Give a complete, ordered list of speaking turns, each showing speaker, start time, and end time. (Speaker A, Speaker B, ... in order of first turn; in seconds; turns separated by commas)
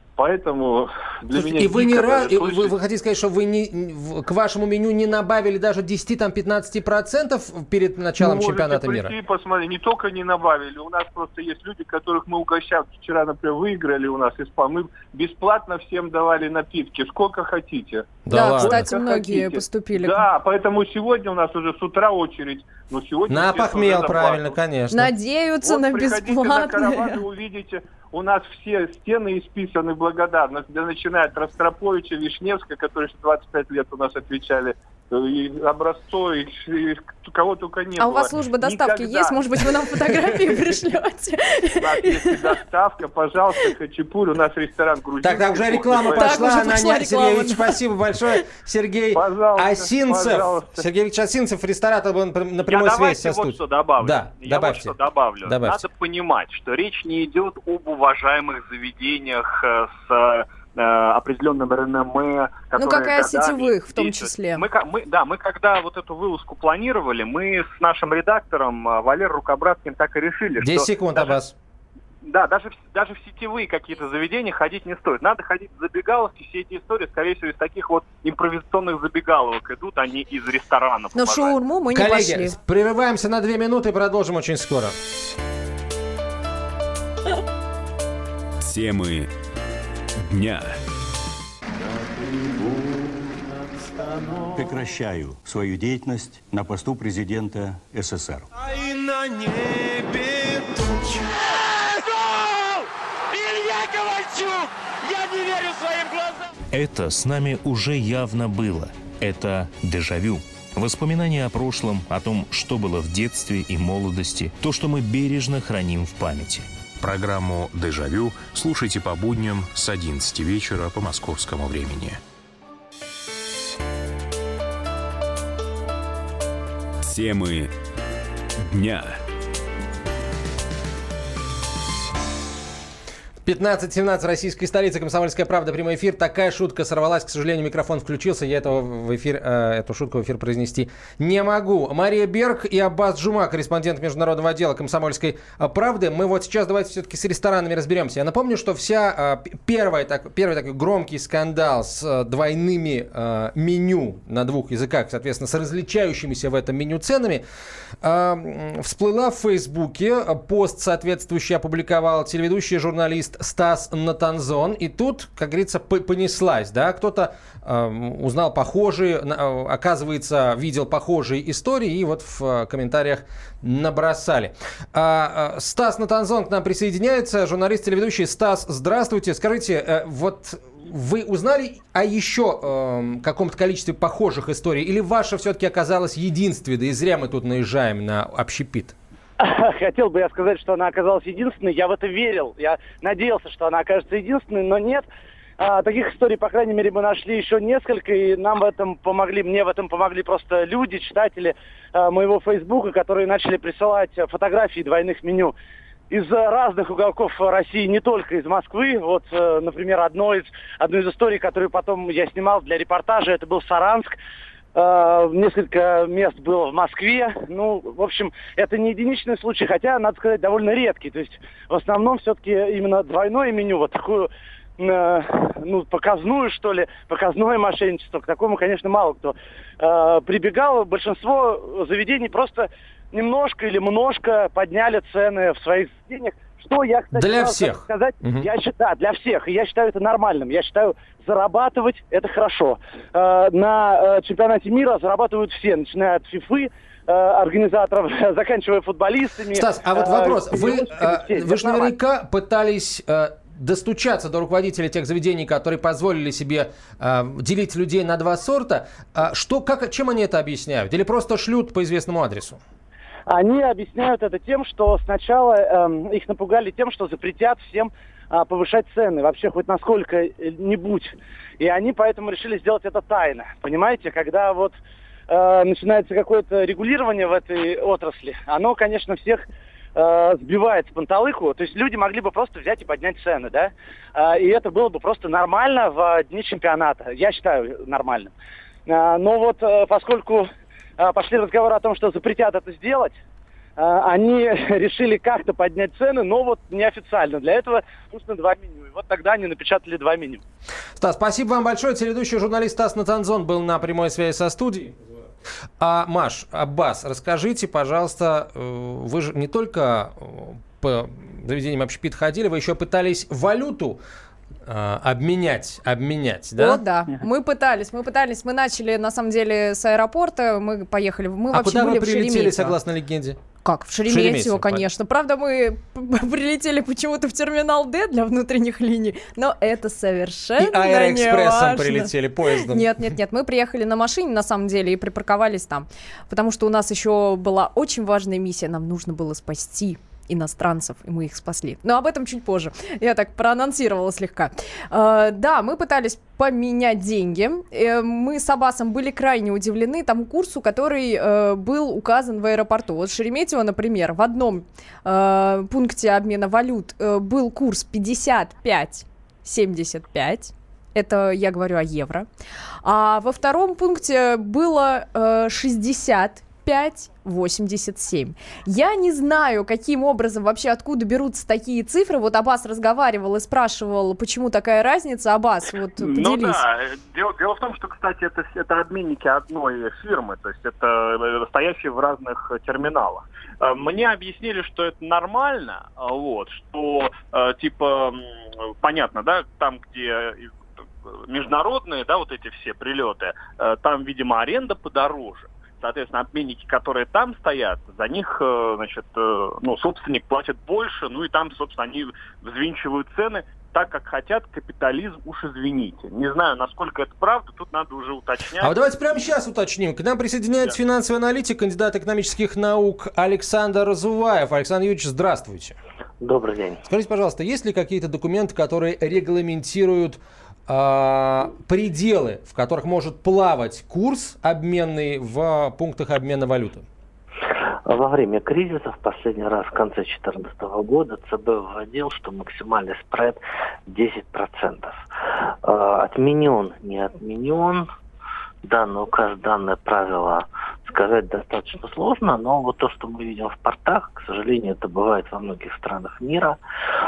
Speaker A: 0.2-2.7, Speaker B: 1.3-9.2, Speaker A: 8.2-24.6, Speaker B: 18.3-18.9, Speaker C: 18.3-20.3, Speaker B: 23.3-25.1, Speaker C: 24.9-27.2, Speaker A: 25.6-40.2, Speaker C: 38.0-42.6, Speaker A: 41.8-46.6, Speaker B: 45.2-55.8, Speaker C: 46.1-47.8, Speaker A: 49.1-50.9, Speaker D: 52.7-71.4, Speaker C: 62.8-64.7, Speaker B: 70.6-71.5, Speaker D: 72.3-81.6, Speaker C: 81.2-82.5, Speaker B: 81.9-85.0, Speaker E: 88.6-89.3, Speaker E: 90.3-90.8, Speaker F: 94.5-98.5, Speaker G: 103.4-122.2, Speaker E: 127.0-127.7, Speaker E: 128.7-129.2, Speaker B: 133.4-157.4, Speaker B: 158.0-188.9, Speaker H: 189.4-195.1, Speaker H: 195.6-205.6, Speaker H: 206.1-214.2, Speaker H: 214.8-251.9, Speaker B: 237.1-238.5, Speaker B: 249.5-262.6, Speaker H: 263.3-274.8, Speaker H: 275.3-279.4, Speaker H: 280.0-288.3, Speaker H: 288.9-293.1, Speaker H: 293.8-300.4, Speaker B: 301.0-305.0, Speaker B: 305.8-314.0, Speaker B: 314.7-316.8, Speaker C: 316.6-322.8, Speaker B: 321.5-323.4, Speaker C: 323.6-362.3, Speaker B: 324.1-324.8, Speaker B: 330.6-332.9, Speaker C: 362.8-376.6, Speaker D: 376.0-390.5, Speaker D: 391.1-408.7, Speaker B: 408.6-415.8, Speaker I: 416.2-416.8, Speaker B: 416.9-426.9, Speaker I: 427.9-435.0, Speaker I: 435.6-437.9, Speaker I: 438.6-446.6